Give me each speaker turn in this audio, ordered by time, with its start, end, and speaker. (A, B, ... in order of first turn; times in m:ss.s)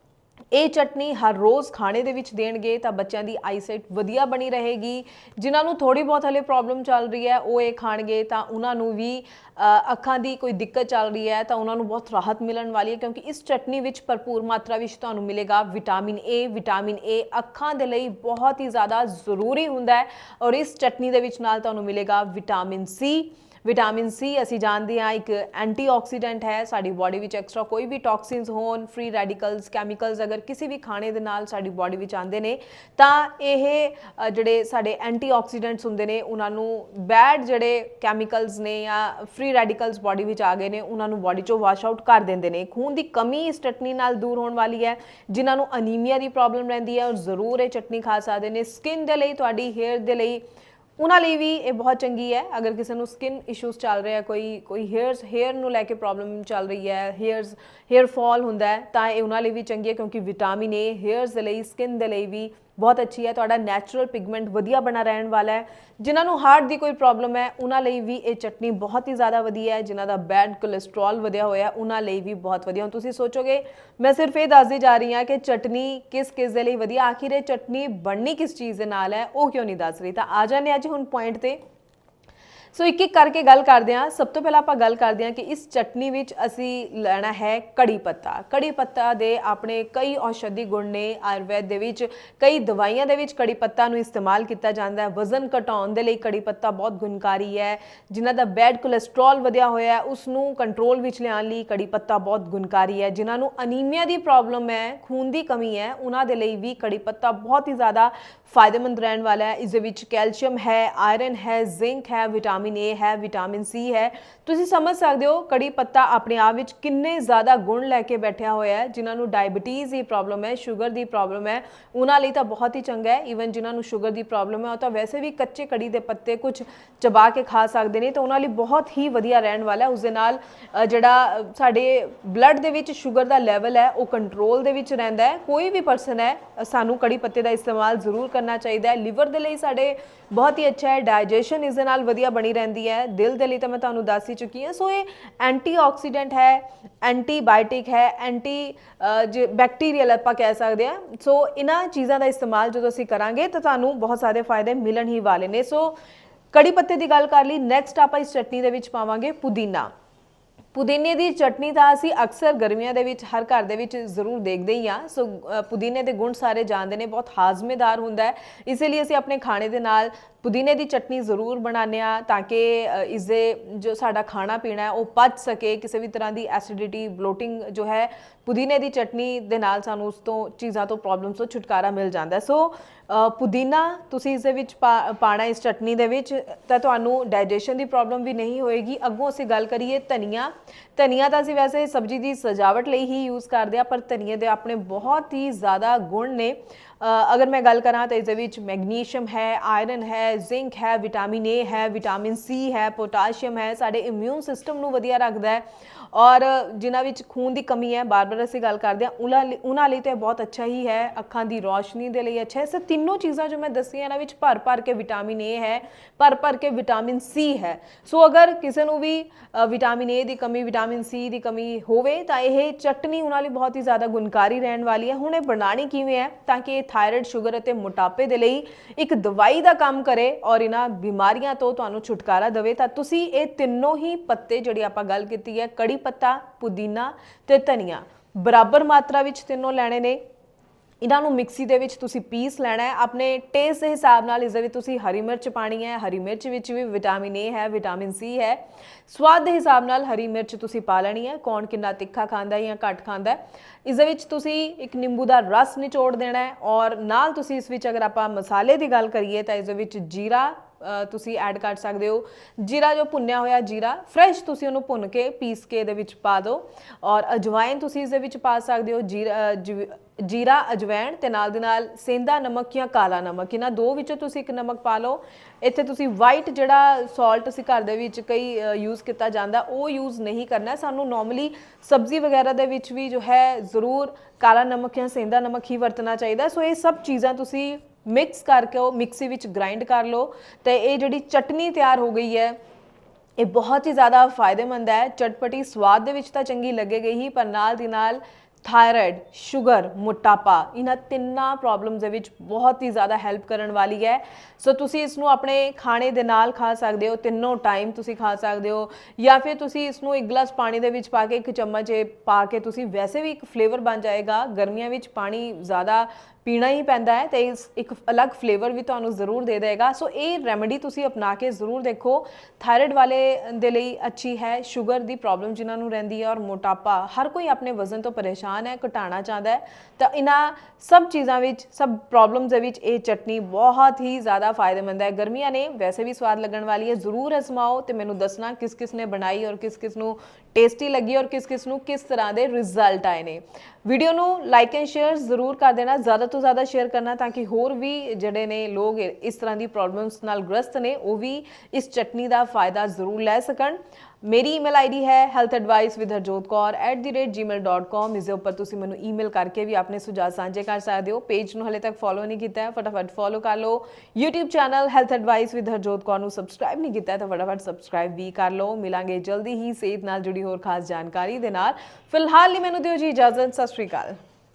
0:00.5-0:50.4 A
0:51.0-1:21.6 A
1:22.7-2:35.9 A
2:36.5-2:39.9 A
2:40.7-4:00.2 A
4:01.0-4:52.6 A
4:53.4-6:14.2 A